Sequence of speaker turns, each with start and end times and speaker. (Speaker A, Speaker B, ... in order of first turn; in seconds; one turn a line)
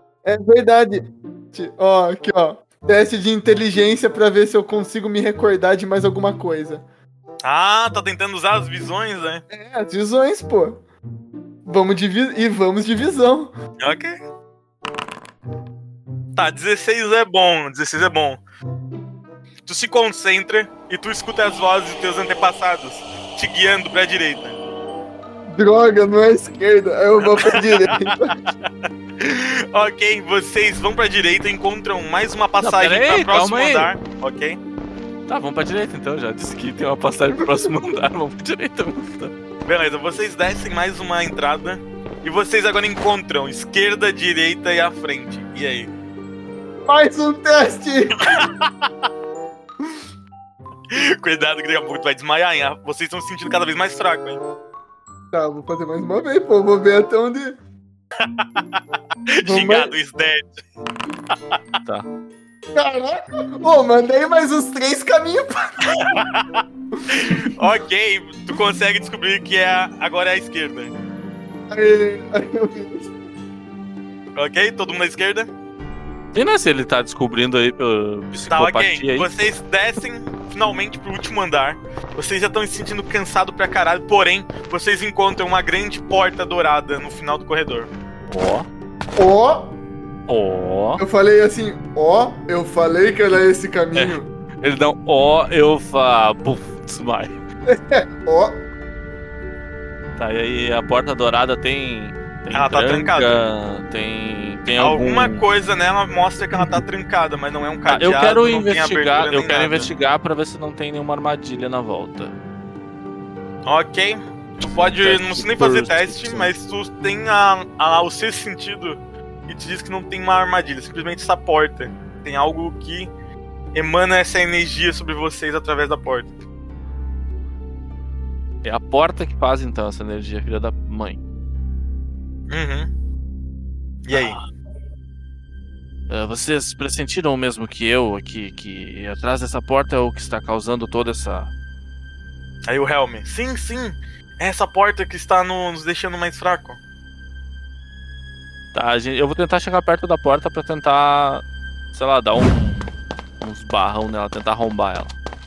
Speaker A: 0.2-6.8
Speaker B: 7.4-9.4
Speaker A: 9.5-10.8
Speaker A: 11.7-13.5
Speaker B: 13.8-14.2
Speaker B: 16.4-18.4
Speaker B: 19.7-24.6
Speaker A: 25.5-28.4
Speaker B: 27.4-28.1
Speaker B: 29.2-34.6
Speaker C: 32.6-33.9
Speaker C: 35.3-39.3
Speaker B: 39.7-45.9
Speaker A: 46.9-48.3
Speaker B: 48.3-48.7
Speaker B: 50.9-54.4
Speaker A: 55.3-57.6
Speaker B: 59.4-60.5
Speaker A: 59.4-60.0
Speaker A: 62.8-66.0
Speaker B: 65.9-70.9
Speaker A: 71.7-73.1
Speaker B: 74.3-75.5
Speaker C: 76.3-79.3
Speaker B: 78.5-87.9
Speaker C: 88.3-88.7
Speaker A: 89.2-89.8
Speaker C: 90.3-91.0
Speaker A: 91.0-94.3
Speaker C: 94.0-97.3
Speaker A: 97.7-98.6
Speaker C: 100.2-105.4
Speaker B: 102.5-103.4
Speaker B: 104.8-109.9
Speaker C: 107.9-112.3
Speaker B: 113.7-123.1
Speaker C: 114.7-116.5
Speaker B: 123.7-126.4
Speaker C: 128.6-131.2
Speaker B: 132.5-132.9
Speaker B: 134.1-134.4
Speaker C: 134.1-134.4
Speaker C: 136.1-141.5
Speaker B: 142.7-146.8
Speaker C: 148.7-152.9
Speaker C: 153.4-155.1